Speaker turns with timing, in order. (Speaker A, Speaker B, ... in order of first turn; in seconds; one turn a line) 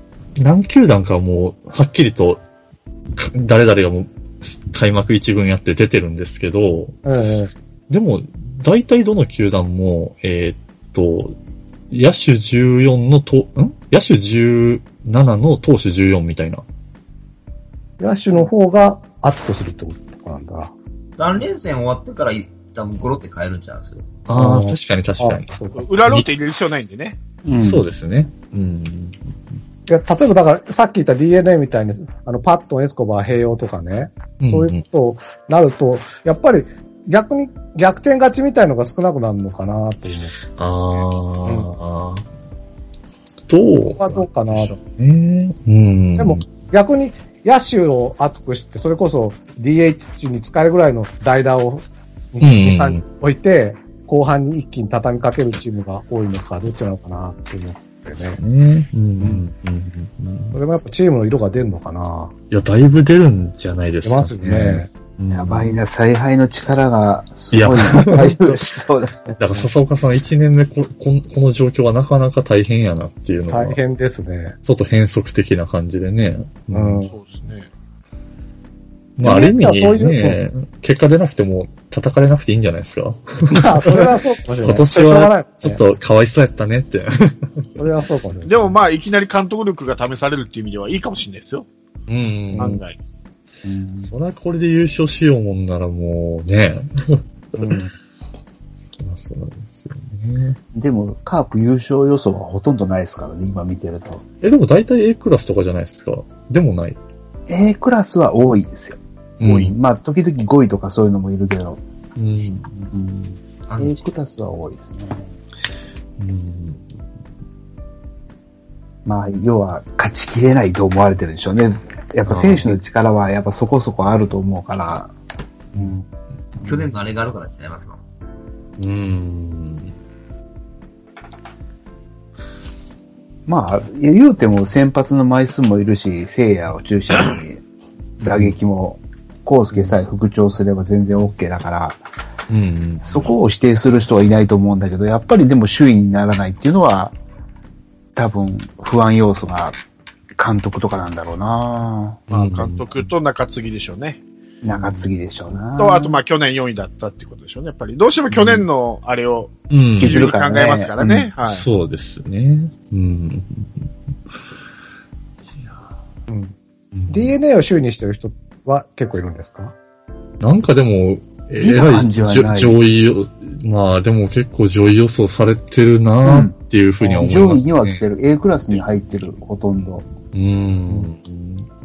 Speaker A: 0.3-2.4
Speaker A: 3.1-7.0
Speaker B: 7.0-7.5
Speaker A: 7.9-11.3
Speaker A: 11.9-16.6
Speaker B: 18.0-20.7
Speaker C: 21.2-24.1
Speaker A: 24.3-25.5
Speaker B: 24.3-26.0
Speaker D: 25.7-27.2
Speaker E: 27.4-27.8
Speaker A: 27.6-29.2
Speaker B: 29.9-40.4
Speaker A: 34.4-34.8
Speaker A: 40.5-42.2
Speaker A: 43.5-46.4
Speaker B: 44.0-44.7
Speaker B: 46.2-58.4
Speaker A: 52.4-53.0
Speaker A: 58.2-60.6
Speaker B: 60.5-62.3
Speaker A: 62.5-65.8
Speaker B: 64.0-64.9
Speaker E: 65.3-69.4
Speaker A: 67.5-68.3
Speaker B: 67.9-68.6
Speaker A: 69.4-73.8
Speaker B: 73.5-74.5
Speaker A: 74.6-77.0
Speaker B: 76.7-77.1
Speaker D: 77.1-77.7
Speaker A: 79.2-87.5
Speaker B: 79.2-80.4
Speaker B: 83.5-85.8
Speaker B: 87.8-88.7
Speaker D: 88.4-91.7
Speaker A: 92.1-92.8
Speaker D: 92.6-93.0
Speaker E: 93.6-94.1
Speaker A: 94.1-97.2
Speaker B: 97.6-97.9
Speaker A: 99.0-100.6
Speaker E: 100.7-104.2
Speaker A: 104.4-107.0
Speaker E: 107.5-111.8
Speaker A: 109.4-109.7
Speaker A: 112.2-112.7
Speaker E: 112.9-115.3
Speaker C: 113.7-114.0
Speaker A: 116.2-116.8
Speaker E: 119.0-125.1
Speaker A: 122.2-122.7
Speaker E: 125.7-126.0
Speaker C: 126.6-128.0
Speaker A: 128.8-129.9
Speaker E: 133.5-137.6
Speaker A: 138.2-138.6
Speaker E: 138.2-142.0
Speaker A: 142.5-143.2
Speaker E: 143.0-147.2
Speaker E: 148.2-149.8
Speaker E: 150.3-152.2
Speaker A: 152.3-153.1
Speaker D: 152.3-154.2
Speaker E: 154.6-156.2
Speaker A: 154.7-155.1
Speaker D: 155.8-161.7
Speaker A: 159.7-160.3
Speaker E: 160.0-161.3
Speaker A: 161.4-163.9
Speaker B: 166.3-166.5
Speaker A: 166.9-167.3
Speaker B: 167.1-169.7
Speaker A: 170.4-178.0
Speaker E: 171.6-172.8
Speaker E: 176.2-180.0
Speaker A: 180.3-181.7